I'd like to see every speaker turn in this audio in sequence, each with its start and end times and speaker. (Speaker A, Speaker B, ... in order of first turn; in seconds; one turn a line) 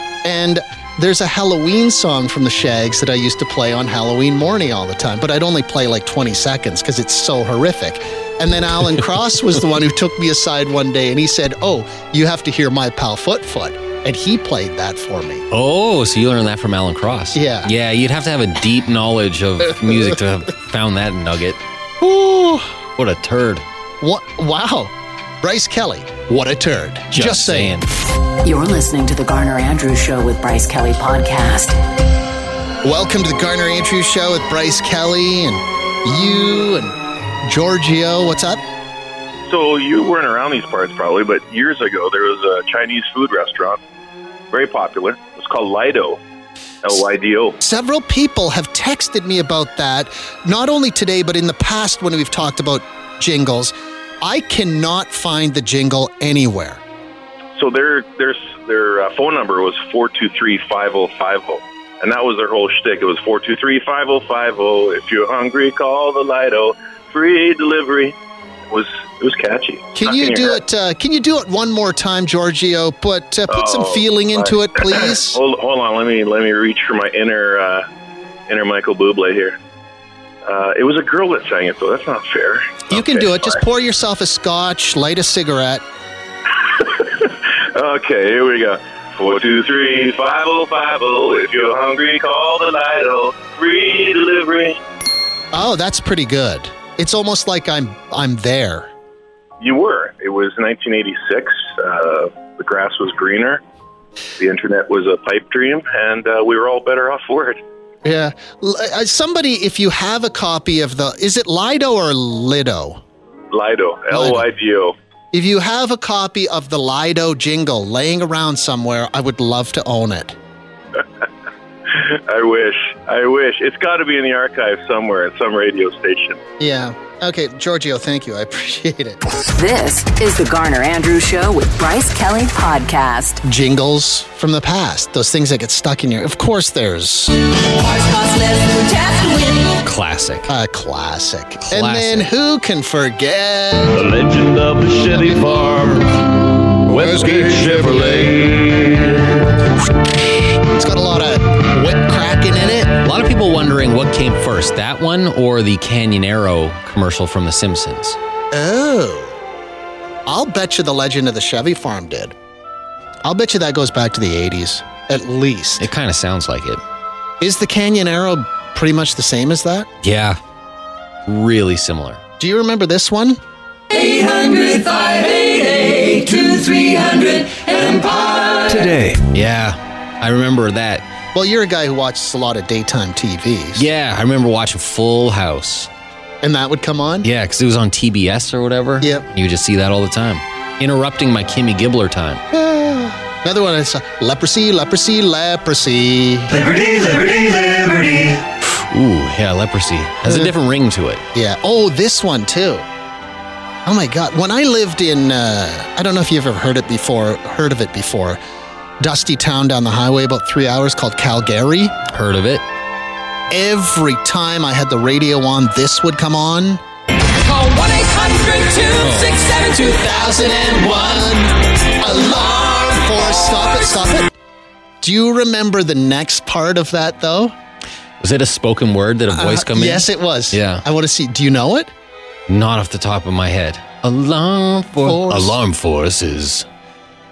Speaker A: 0.2-15.5
Speaker B: 15.5-21.6
Speaker A: 17.3-17.7
Speaker A: 22.0-22.7
Speaker B: 23.0-23.6
Speaker A: 24.0-27.8
Speaker B: 27.1-27.9
Speaker C: 28.4-31.8
Speaker A: 32.8-38.6
Speaker D: 39.5-43.8
Speaker D: 44.5-46.2
Speaker D: 46.8-47.6
Speaker A: 47.6-56.8
Speaker D: 57.6-68.2
Speaker D: 68.7-70.6
Speaker A: 70.0-75.4
Speaker D: 73.5-77.9
Speaker D: 78.5-79.6
Speaker D: 80.5-83.6
Speaker A: 82.9-85.8
Speaker D: 86.7-94.8
Speaker A: 95.5-98.9
Speaker D: 99.6-103.6
Speaker D: 104.4-107.6
Speaker A: 108.0-113.0
Speaker D: 113.5-115.0
Speaker A: 114.1-114.5
Speaker A: 115.3-120.4
Speaker D: 121.9-126.4
Speaker A: 126.6-129.2
Speaker C: 129.5-133.4
Speaker A: 133.4-137.4
Speaker C: 137.6-139.8
Speaker B: 139.8-140.5
Speaker A: 140.5-144.0
Speaker B: 141.6-142.3
Speaker E: 143.9-146.1
Speaker A: 145.1-146.1
Speaker E: 146.8-149.2
Speaker A: 150.0-152.9
Speaker B: 153.0-158.2
Speaker A: 158.5-159.4
Speaker A: 160.3-162.3
Speaker A: 163.2-165.9
Speaker B: 165.8-166.8
Speaker A: 167.4-169.9
Speaker B: 170.0-170.4
Speaker B: 171.3-172.2
Speaker A: 172.4-173.4
Speaker C: 174.0-178.7
Speaker B: 179.0-181.1
Speaker A: 181.3-183.9
Speaker B: 183.8-185.9
Speaker A: 186.4-187.3
Speaker B: 187.2-192.4
Speaker A: 189.0-189.3
Speaker A: 192.5-196.9
Speaker B: 198.6-201.2
Speaker A: 200.2-200.5
Speaker A: 201.3-202.9
Speaker A: 203.8-208.4
Speaker A: 209.0-212.0
Speaker B: 212.1-212.6
Speaker A: 213.5-216.8
Speaker C: 217.4-219.8
Speaker B: 219.0-219.4
Speaker A: 219.4-224.3
Speaker A: 225.0-227.6
Speaker B: 228.2-230.8
Speaker A: 229.3-231.9
Speaker B: 232.5-236.7
Speaker A: 235.0-235.6